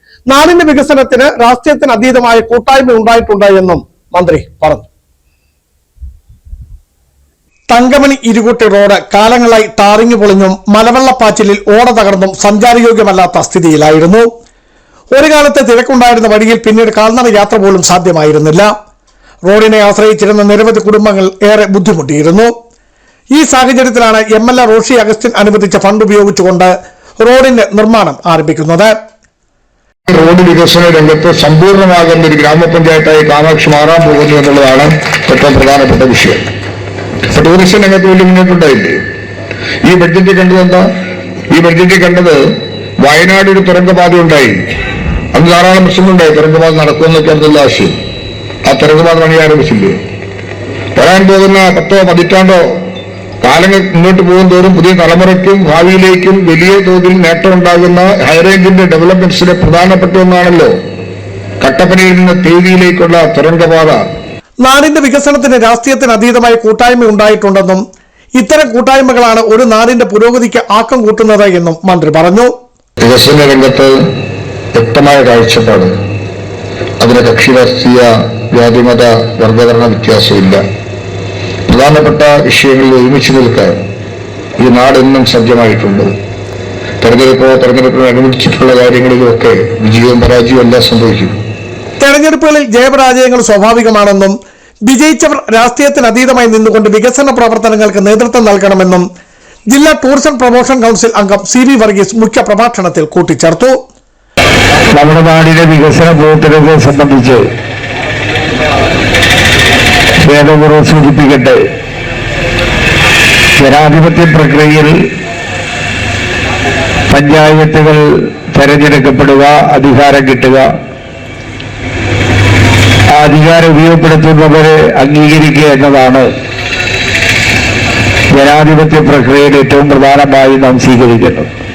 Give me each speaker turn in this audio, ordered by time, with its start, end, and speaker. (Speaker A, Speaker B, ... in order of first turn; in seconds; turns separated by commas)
Speaker A: 0.3-4.9, Speaker A: 7.7-14.3, Speaker A: 15.1-18.7, Speaker A: 19.4-22.5, Speaker A: 23.3-28.9, Speaker B: 30.1-36.4, Speaker B: 37.3-39.0, Speaker B: 39.8-40.9, Speaker B: 41.5-42.4, Speaker B: 43.0-44.6, Speaker B: 45.3-48.0, Speaker B: 48.6-50.0, Speaker B: 51.0-52.8, Speaker B: 53.4-60.7, Speaker B: 61.6-64.0, Speaker A: 64.6-67.8, Speaker A: 68.3-72.5, Speaker B: 73.0-74.0, Speaker B: 74.7-75.9, Speaker B: 77.0-80.6, Speaker B: 81.7-83.8, Speaker B: 84.6-86.1, Speaker B: 87.0-91.3, Speaker A: 92.0-99.0, Speaker A: 99.7-103.8, Speaker C: 104.9-107.4, Speaker C: 110.2-111.6, Speaker C: 113.6-114.9, Speaker C: 117.1-120.7, Speaker C: 123.1-126.3, Speaker C: 128.3-131.5